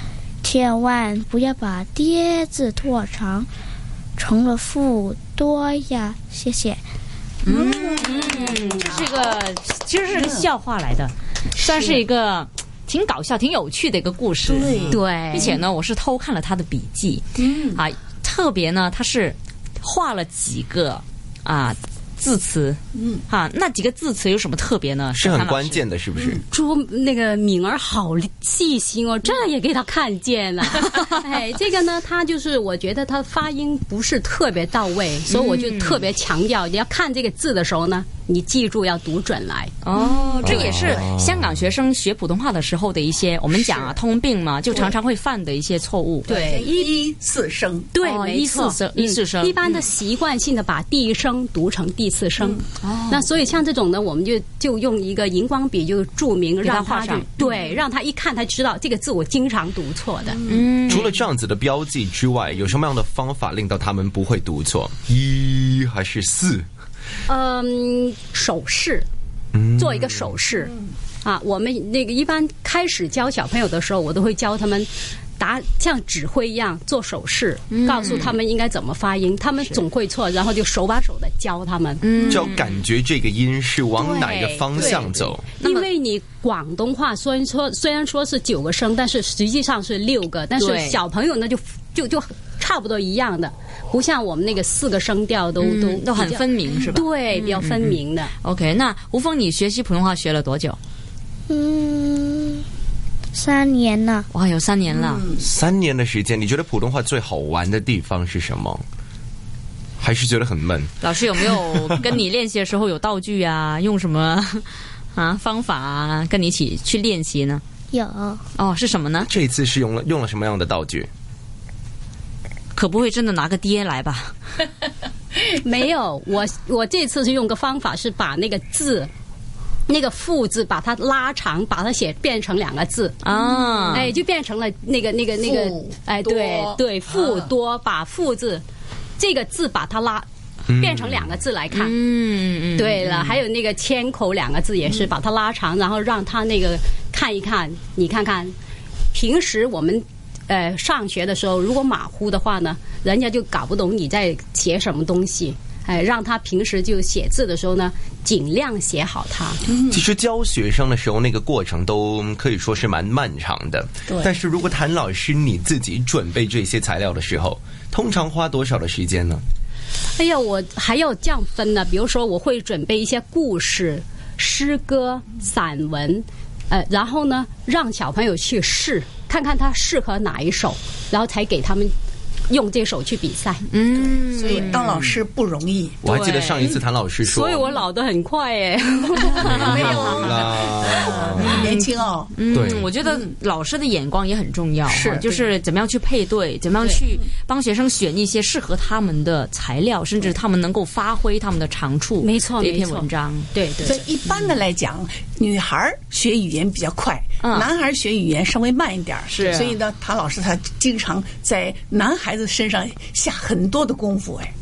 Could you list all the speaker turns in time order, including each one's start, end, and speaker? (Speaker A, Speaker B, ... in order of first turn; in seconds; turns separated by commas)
Speaker A: 0.4-3.5, Speaker A: 4.2-6.8, Speaker B: 7.4-25.8, Speaker C: 7.5-9.3, Speaker C: 10.1-10.5, Speaker C: 11.6-12.0, Speaker C: 14.4-15.6, Speaker D: 14.9-15.6, Speaker C: 17.4-17.8, Speaker C: 22.9-23.2, Speaker E: 25.1-26.4, Speaker C: 26.1-26.4, Speaker D: 26.5-39.8, Speaker B: 35.3-36.0, Speaker B: 39.8-46.3, Speaker C: 40.0-40.5, Speaker D: 40.4-40.7, Speaker E: 40.5-41.2, Speaker D: 46.2-46.9, Speaker C: 46.2-47.9, Speaker D: 47.9-60.4, Speaker B: 48.0-49.7, Speaker B: 52.8-53.3, Speaker B: 56.6-57.3, Speaker B: 60.5-61.0, Speaker E: 60.9-66.7, Speaker D: 67.3-69.1, Speaker E: 69.5-70.2, Speaker D: 69.7-82.1, Speaker B: 77.7-78.4, Speaker B: 82.0-82.8, Speaker C: 82.2-82.5, Speaker E: 82.3-85.5, Speaker D: 84.0-98.3, Speaker B: 84.8-85.0, Speaker B: 85.6-85.9, Speaker B: 90.5-91.0, Speaker B: 95.6-100.8, Speaker A: 101.5-102.7, Speaker A: 103.3-104.3, Speaker B: 104.3-105.2, Speaker E: 105.4-108.8, Speaker E: 110.0-112.0, Speaker B: 111.0-117.6, Speaker A: 117.9-118.4, Speaker B: 118.5-119.3, Speaker E: 119.2-121.1, Speaker B: 122.7-124.3, Speaker D: 125.3-129.1, Speaker D: 129.9-133.2, Speaker B: 133.2-134.1, Speaker D: 133.9-138.6, Speaker C: 135.4-137.5, Speaker D: 139.2-142.0, Speaker E: 140.7-141.3, Speaker B: 141.7-143.4, Speaker D: 142.8-148.5, Speaker D: 149.1-159.6, Speaker C: 159.7-160.0, Speaker E: 159.9-169.4, Speaker C: 164.1-164.4, Speaker D: 170.2-181.9, Speaker D: 182.5-183.6, Speaker B: 183.7-185.1, Speaker C: 184.2-186.0, Speaker E: 186.0-187.7, Speaker B: 186.1-186.7, Speaker D: 186.6-190.5, Speaker C: 189.4-192.4, Speaker E: 189.4-191.6, Speaker B: 189.7-190.2, Speaker B: 191.4-191.8, Speaker B: 192.3-203.5, Speaker E: 192.5-192.9, Speaker D: 194.9-195.3, Speaker D: 202.2-204.0, Speaker C: 203.8-214.5, Speaker B: 207.4-207.7, Speaker B: 209.3-209.8